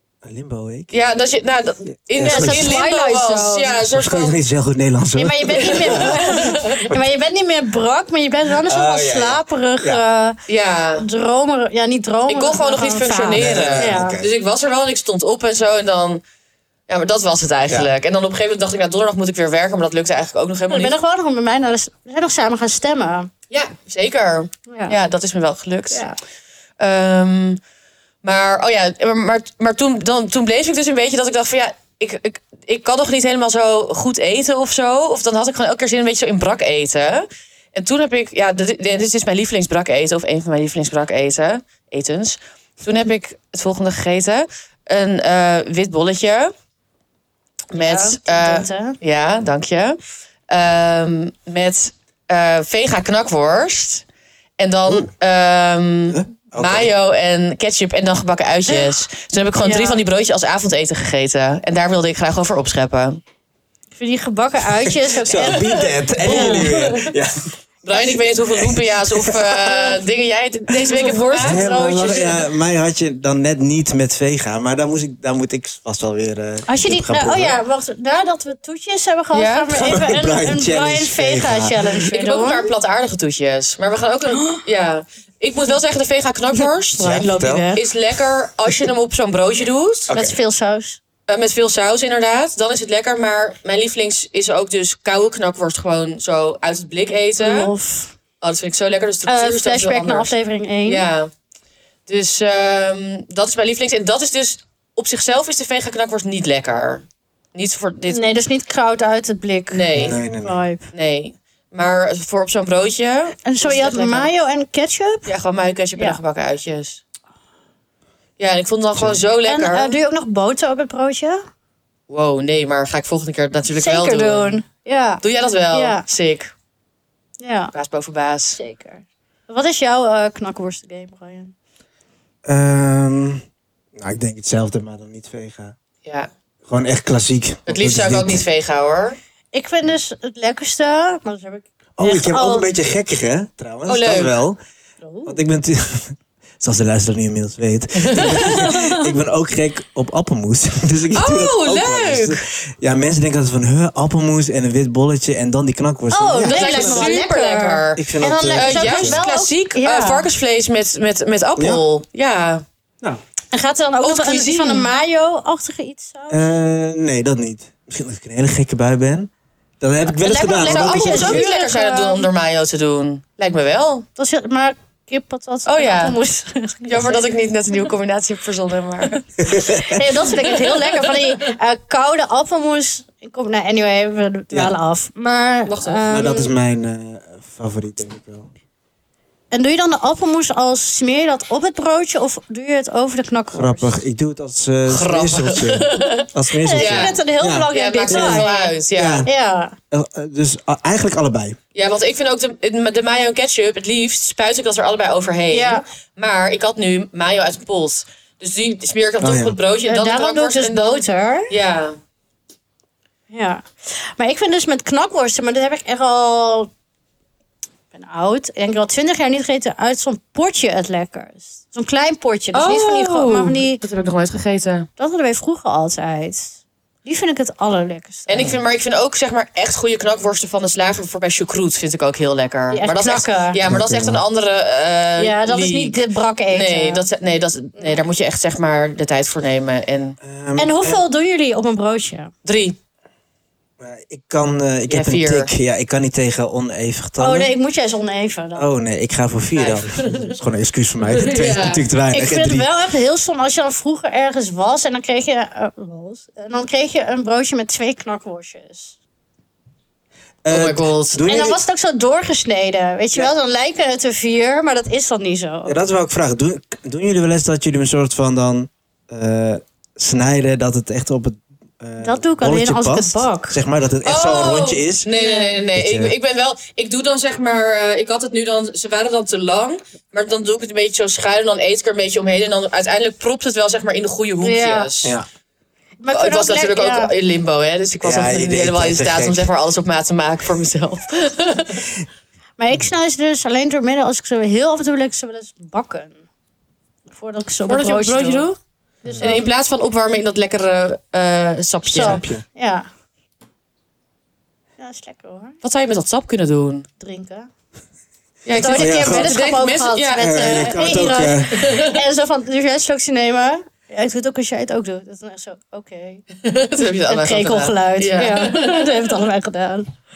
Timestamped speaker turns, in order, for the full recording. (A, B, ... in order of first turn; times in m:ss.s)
0:00.2-0:01.1 A
0:00.9-0:04.4 B
0:02.1-0:02.8 A
0:02.2-0:03.7 C
0:03.8-0:07.0 A
0:05.2-0:10.4 C
0:05.7-0:06.9 B
0:08.6-0:10.0 A
0:10.5-0:11.0 B
0:11.0-0:14.1 C
0:12.3-0:16.2 B
0:13.4-0:14.3 A
0:16.9-0:20.9 B
0:20.7-0:23.3 C
0:23.5-0:26.0 B
0:24.7-0:25.0 C
0:25.9-0:26.2 C
0:26.8-0:27.6 B
0:28.2-0:46.5 B
0:47.7-0:54.0 B
0:47.7-0:49.0 C
0:54.6-1:03.2 B
0:56.1-0:56.9 A
0:58.7-0:58.9 C
0:59.6-1:00.0 C
1:04.0-1:06.7 C
1:05.1-1:07.4 A
1:06.2-1:07.1 B
1:07.8-1:11.6 B
1:08.0-1:09.6 A
1:09.7-1:10.0 C
1:10.8-1:12.5 C
1:11.4-1:17.6 A
1:16.7-1:22.7 C
1:19.3-1:19.8 B
1:19.7-1:21.9 A
1:22.0-1:30.1 B
1:24.3-1:24.6 C
1:26.9-1:27.7 A
1:27.0-1:27.8 C
1:30.1-1:30.4 A
1:30.1-1:31.0 C
1:31.3-1:37.7 B
1:37.4-1:38.1 C
1:38.4-1:40.3 B
1:39.2-1:41.1 C
1:40.8-1:41.3 B
1:42.1-1:48.3 B
1:48.1-1:50.9 C
1:49.7-1:50.2 B
1:49.9-1:50.6 A
1:50.9-1:54.3 B
1:53.4-1:55.3 C
1:55.2-1:57.0 B
1:58.4-1:59.9 B
1:59.0-1:59.2 A
1:59.4-2:01.4 C
2:02.1-2:04.6 B
2:03.7-2:06.0 C
2:05.2-2:06.5 B
2:07.4-2:07.7 C
2:07.7-2:08.6 B
2:08.6-2:11.5 C
2:12.4-2:13.4 A
2:14.0-2:15.8 A
2:16.0-2:16.3 B
2:16.6-2:18.4 A
2:17.6-2:19.2 B
2:19.5-2:22.7 C
2:22.0-2:24.6 A
2:23.9-2:24.4 B
2:25.0-2:25.4 C
2:25.2-2:37.1 A
2:28.0-2:28.7 B
2:28.2-2:29.1 C
2:31.1-2:32.4 B
2:36.1-2:40.3 C
2:36.4-2:42.6 B
2:38.0-2:39.2 A
2:41.6-2:41.8 A
2:43.5-2:46.5 C
2:44.0-2:44.9 B
2:46.3-2:51.4 A
2:50.1-2:52.3 C
2:50.6-2:54.0 B
2:54.2-2:57.3 C
2:55.6-2:56.2 B
2:56.8-2:59.2 B
2:59.4-3:00.1 A
2:59.5-3:06.5 C
3:00.3-3:01.4 B
3:05.7-3:06.2 B
3:06.1-3:08.5 A
3:09.5-3:14.0 C
3:13.5-3:19.3 A
3:14.9-3:17.2 B
3:16.6-3:19.8 C
3:17.7-3:19.3 B
3:19.9-3:21.6 A
3:21.7-3:32.0 B
3:25.5-3:25.8 C
3:29.2-3:29.6 A
3:29.8-3:31.5 C
3:33.3-3:36.7 C
3:37.9-3:43.8 C
3:42.5-3:44.9 B
3:45.0-3:48.5 C
3:48.3-4:00.2 B
3:52.7-3:53.6 C
3:53.6-3:54.2 A
3:55.2-3:57.0 C
3:57.8-3:58.0 C
4:00.2-4:01.0 A
4:00.6-4:02.3 C
4:02.4-4:02.8 B
4:03.8-4:07.5 A
4:04.9-4:05.5 B
4:07.2-4:08.7 C
4:08.6-4:12.7 A
4:09.6-4:10.4 B
4:11.1-4:11.8 B
4:12.1-4:19.0 C
4:20.4-4:21.6 A
4:20.5-4:21.2 B
4:21.3-4:25.8 C
4:25.6-4:35.1 A
4:32.0-4:33.6 C
4:34.0-4:45.2 B
4:35.1-4:35.6 C
4:35.7-4:36.1 A
4:44.4-4:44.9 C
4:46.0-4:47.1 C
4:46.1-4:51.8 B
4:48.0-4:49.5 A
4:52.6-4:56.2 C
4:57.1-4:58.5 C
4:57.7-4:58.6 B
4:59.0-4:59.3 A
4:59.0-4:59.5 C
4:59.2-5:02.2 B
5:01.9-5:02.9 C
5:01.9-5:02.4 A
5:04.8-5:05.6 C
5:05.6-5:06.9 B
5:07.0-5:07.5 C
5:08.4-5:10.8 B
5:08.5-5:16.2 C
5:08.6-5:09.3 A
5:10.2-5:11.7 A
5:11.5-5:12.0 B
5:16.4-5:19.0 B
5:16.8-5:19.9 C